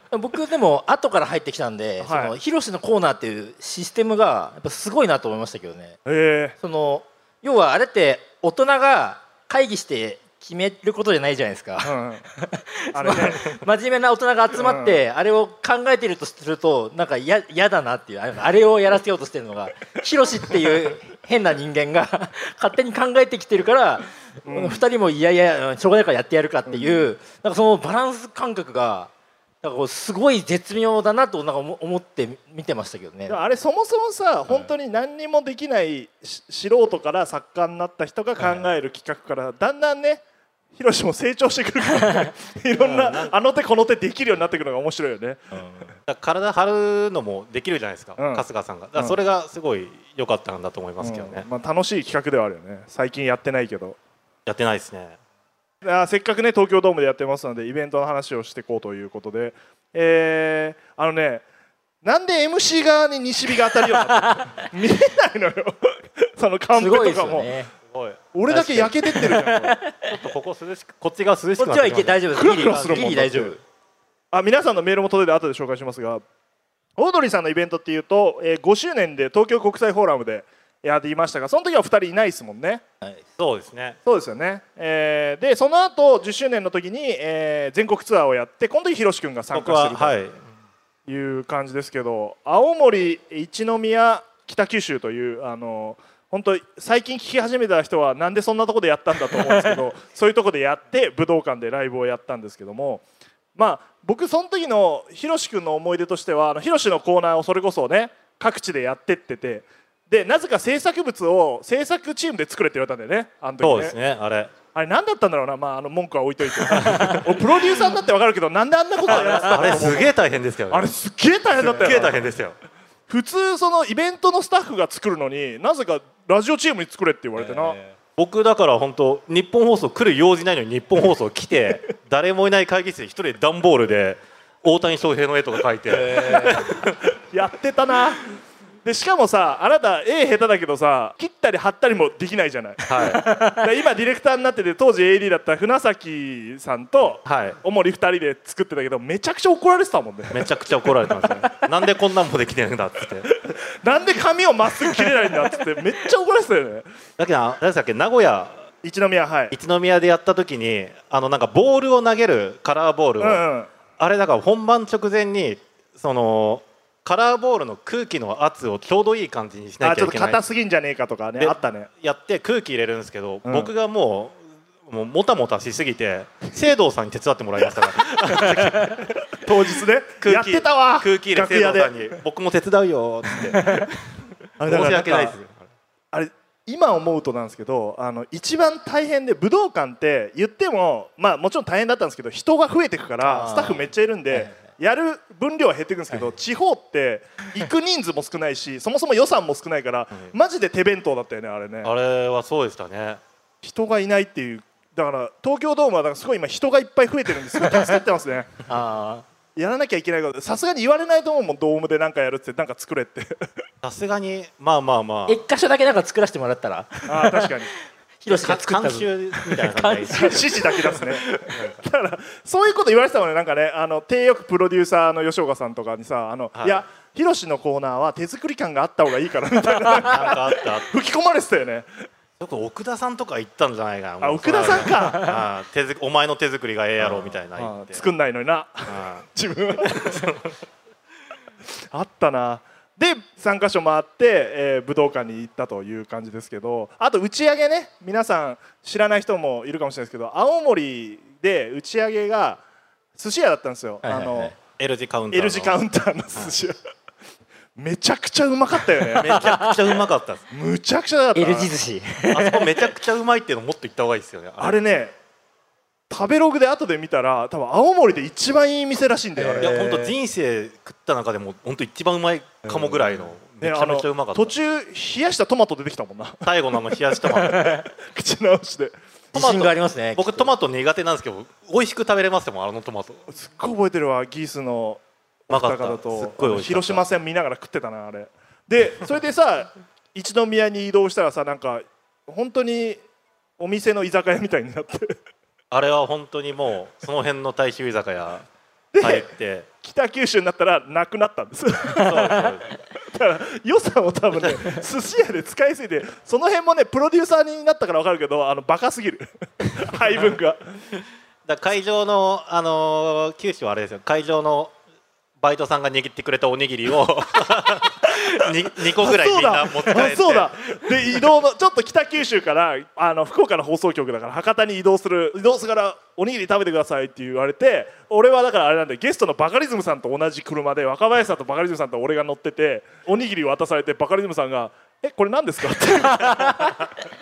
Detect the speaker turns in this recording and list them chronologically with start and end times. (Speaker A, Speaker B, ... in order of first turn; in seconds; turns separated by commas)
Speaker A: 0.1-6.0, Speaker B: 2.0-2.4, Speaker B: 6.1-6.6, Speaker A: 6.6-29.1, Speaker B: 11.8-12.2, Speaker B: 12.9-13.6, Speaker B: 14.6-15.0, Speaker B: 24.4-24.8, Speaker B: 26.7-27.1, Speaker A: 29.6-33.4, Speaker B: 33.3-40.2, Speaker A: 38.4-38.6, Speaker B: 40.7-45.6, Speaker A: 42.0-42.3, Speaker C: 42.8-43.3, Speaker A: 45.6-45.8, Speaker C: 46.1-51.5, Speaker B: 48.2-49.2, Speaker B: 51.0-54.0, Speaker C: 54.5-55.2, Speaker B: 55.8-61.4, Speaker B: 62.0-67.5, Speaker A: 63.9-64.7, Speaker A: 66.7-67.7, Speaker C: 67.9-68.2, Speaker B: 68.3-69.8, Speaker A: 68.5-70.1, Speaker C: 70.0-73.2, Speaker A: 71.6-73.6, Speaker B: 72.3-73.5, Speaker B: 74.3-76.2, Speaker B: 77.0-82.8, Speaker C: 83.4-84.0, Speaker B: 84.1-90.2, Speaker C: 89.5-90.4, Speaker B: 91.1-103.0, Speaker B: 103.6-113.9, Speaker C: 113.6-114.5, Speaker B: 114.8-120.1, Speaker C: 116.8-117.3, Speaker C: 119.1-120.9, Speaker A: 119.2-119.8, Speaker B: 120.7-122.2, Speaker C: 121.6-122.6, Speaker B: 123.1-127.8, Speaker A: 127.4-127.9, Speaker C: 128.2-137.0, Speaker A: 135.9-136.6, Speaker B: 137.3-138.3, Speaker B: 138.8-142.8, Speaker C: 142.9-143.2, Speaker A: 143.0-143.6, Speaker B: 143.5-150.5, Speaker C: 147.2-147.6, Speaker C: 150.3-153.3, Speaker B: 151.0-151.7, Speaker B: 153.3-156.9, Speaker C: 157.2-158.6, Speaker B: 158.8-159.5, Speaker C: 159.5-163.4, Speaker B: 163.2-163.7, Speaker C: 164.0-170.4, Speaker B: 169.8-171.9, Speaker C: 171.4-179.1, Speaker B: 173.4-173.7, Speaker B: 179.4-182.2, Speaker C: 180.2-184.0, Speaker B: 184.6-185.4, Speaker C: 184.6-185.6, Speaker B: 186.1-201.9, Speaker A: 193.2-194.6, Speaker C: 201.8-203.2, Speaker B: 203.6-208.6, Speaker A: 208.7-209.2, Speaker B: 209.6-213.4, Speaker C: 213.8-215.4, Speaker A: 215.3-217.5, Speaker B: 217.1-217.7, Speaker A: 218.2-220.7, Speaker C: 218.3-221.8, Speaker B: 220.1-231.9, Speaker C: 226.6-226.8, Speaker C: 229.9-230.9, Speaker C: 232.4-238.0, Speaker B: 234.2-235.4, Speaker B: 237.0-240.3, Speaker C: 238.9-239.2, Speaker C: 240.1-240.4, Speaker B: 241.9-252.6, Speaker B: 253.2-254.5, Speaker A: 254.0-254.6, Speaker C: 254.8-255.8, Speaker B: 255.3-256.8, Speaker B: 257.8-259.3, Speaker C: 259.1-260.4, Speaker A: 259.2-259.8, Speaker B: 260.5-261.7, Speaker A: 261.4-262.7, Speaker C: 262.3-264.8, Speaker B: 264.6-265.1, Speaker B: 266.1-269.8, Speaker A: 269.4-270.1, Speaker C: 269.6-274.6, Speaker B: 272.6-273.1, Speaker B: 273.6-276.5, Speaker C: 276.4-277.8, Speaker A: 277.3-277.9, Speaker B: 278.0-279.0, Speaker A: 279.3-280.5, Speaker C: 279.3-283.3, Speaker B: 283.3-293.0, Speaker C: 285.5-287.0, Speaker B: 293.6-295.1, Speaker C: 295.7-298.4, Speaker B: 298.9-299.3, Speaker C: 299.0-299.7, Speaker B: 299.8-302.5, Speaker C: 302.0-302.7, Speaker B: 303.1-310.6, Speaker C: 304.3-304.6, Speaker C: 311.4-314.7, Speaker C: 315.4-320.5, Speaker B: 318.4-336.8, Speaker A: 336.3-336.7